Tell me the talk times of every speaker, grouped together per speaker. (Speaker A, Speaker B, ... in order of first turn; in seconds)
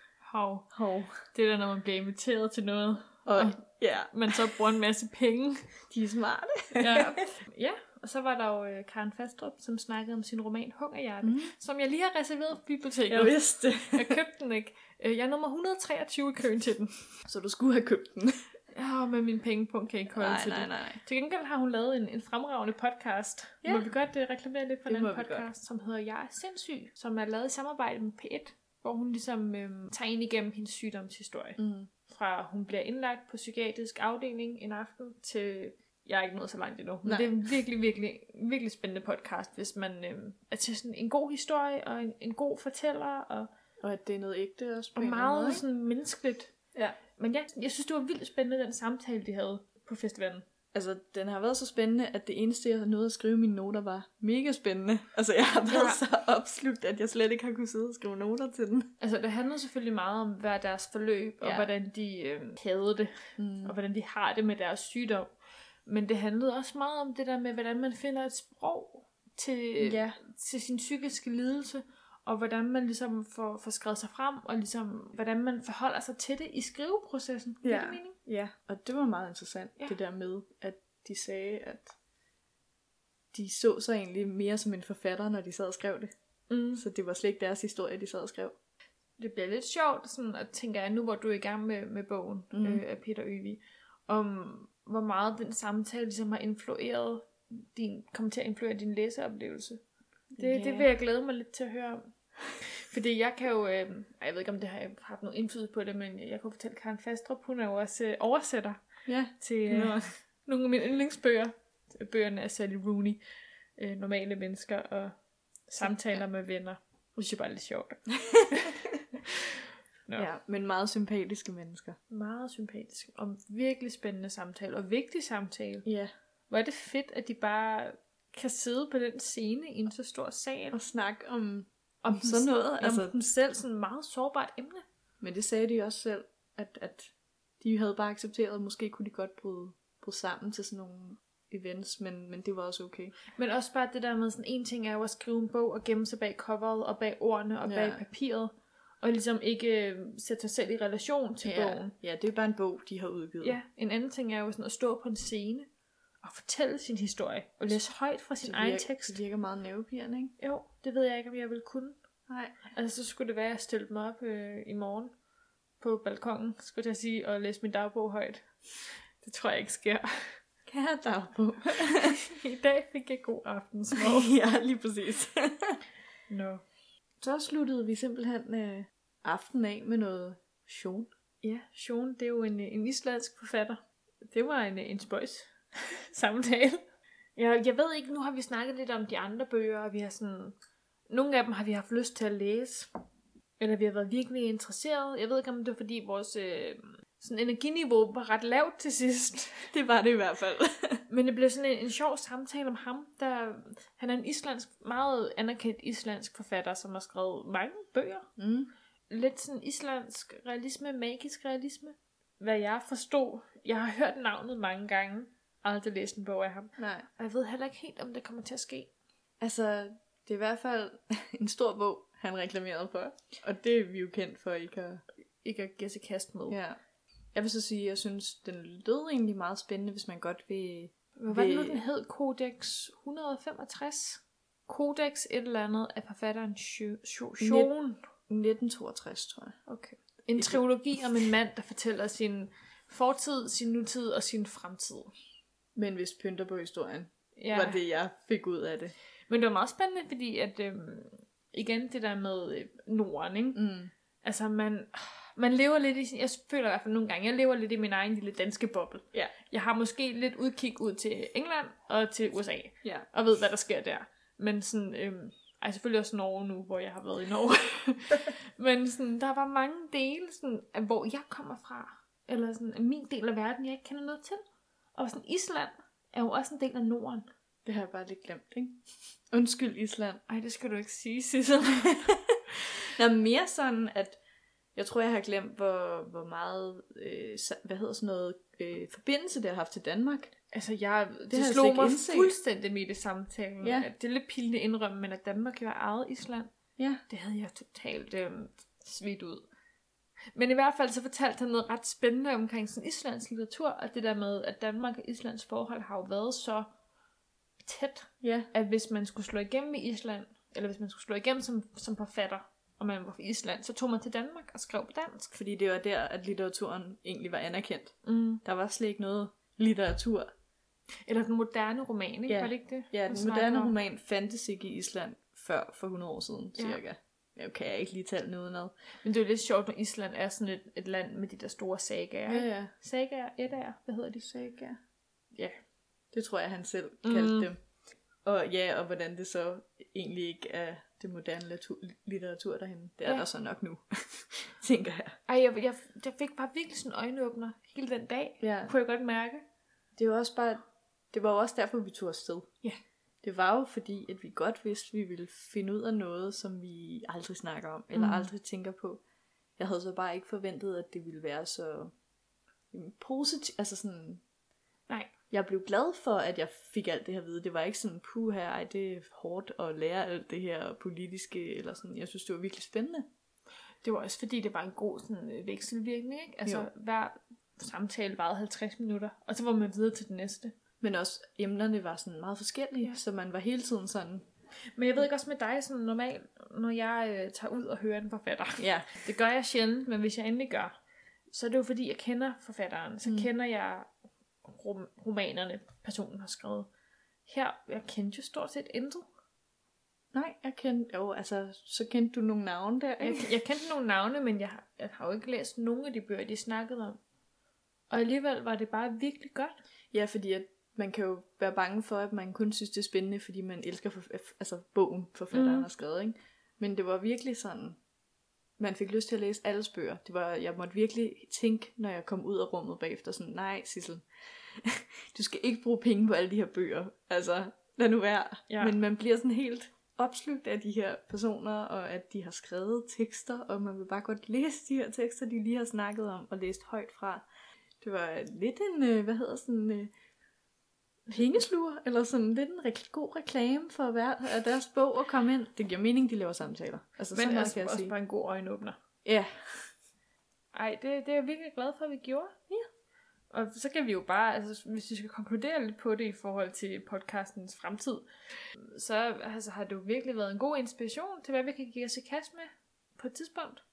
Speaker A: 0.2-0.7, 1.3-3.6, 4.1-5.7, 6.8-16.9, 18.7-43.5, 45.0-46.5, 47.2-50.5, 55.7-56.0, 59.0-65.3, 65.9-78.2, 86.5-86.8, 89.2-99.8, 100.4-108.8, 109.4-113.2, 113.8-115.2, 115.7-120.3, 122.1-125.9, 126.5-130.8, 132.0-134.8, 143.3-151.9, 153.4-155.7, 156.2-159.2, 160.4-162.0, 162.7-165.1, 165.8-168.5, 169.2-170.4, 172.0-174.3, 176.3-176.6, 181.4-186.8, 187.4-190.6, 191.1-192.9, 193.6-199.7, 201.1-208.3, 209.1-218.9, 225.4-226.6, 231.2-238.0, 239.7-245.1, 247.4-247.8, 249.3-253.6, 254.2-274.4, 274.9-277.3, 280.3-282.2, 290.5-296.5, 297.1-299.5, 300.4-306.7, 307.6-315.3, 318.1-318.4, 321.1-323.7, 329.0-334.3, 335.3-335.6, 337.0-337.5, 345.3-349.4, 357.9-358.3, 373.8-380.5, 384.8-390.7, 391.3-393.9, 394.4-396.7, 397.3-399.1, 403.0-407.0, 407.9-409.5, 415.3-415.7, 428.5-428.8, 447.1-448.8, 450.5-452.6, 453.3-463.6
Speaker B: 0.7-1.2, 3.3-4.5, 5.9-7.2, 11.2-11.5, 13.1-14.2, 17.2-18.5, 20.1-21.0, 23.6-23.9, 24.9-25.5, 31.6-31.9, 37.0-37.3, 43.8-45.6, 50.7-58.9, 61.4-61.7, 63.4-63.8, 69.8-70.2, 77.6-81.9, 83.3-86.1, 86.8-88.6, 92.5-92.8, 100.3-100.9, 109.1-110.1, 115.8-116.2, 118.3-119.0, 120.2-122.0, 125.8-126.1, 130.7-133.1, 135.2-143.2, 147.7-148.0, 151.4-153.6, 158.4-160.3, 162.3-162.6, 170.7-172.2, 173.9-175.8, 177.2-181.1, 199.7-201.0, 208.4-208.7, 216.8-217.1, 219.4-225.0, 226.5-226.8, 227.3-231.8, 237.4-237.7, 238.3-239.6, 245.8-248.9, 253.6-253.9, 277.6-280.2, 282.8-284.2, 284.8-290.3, 291.3-292.4, 293.6-293.9, 296.8-297.0, 308.2-308.5, 315.3-320.3, 322.3-328.7, 332.3-332.7, 334.2-334.8, 336.1-337.6, 338.2-345.2, 348.4-348.7, 350.0-352.5, 353.2-359.0, 359.6-361.9, 362.7-364.2, 365.3-373.1, 380.8-384.2, 388.6-388.9, 400.1-403.3, 409.9-417.8, 418.6-437.3, 437.8-439.9, 441.1-447.9, 449.0-449.7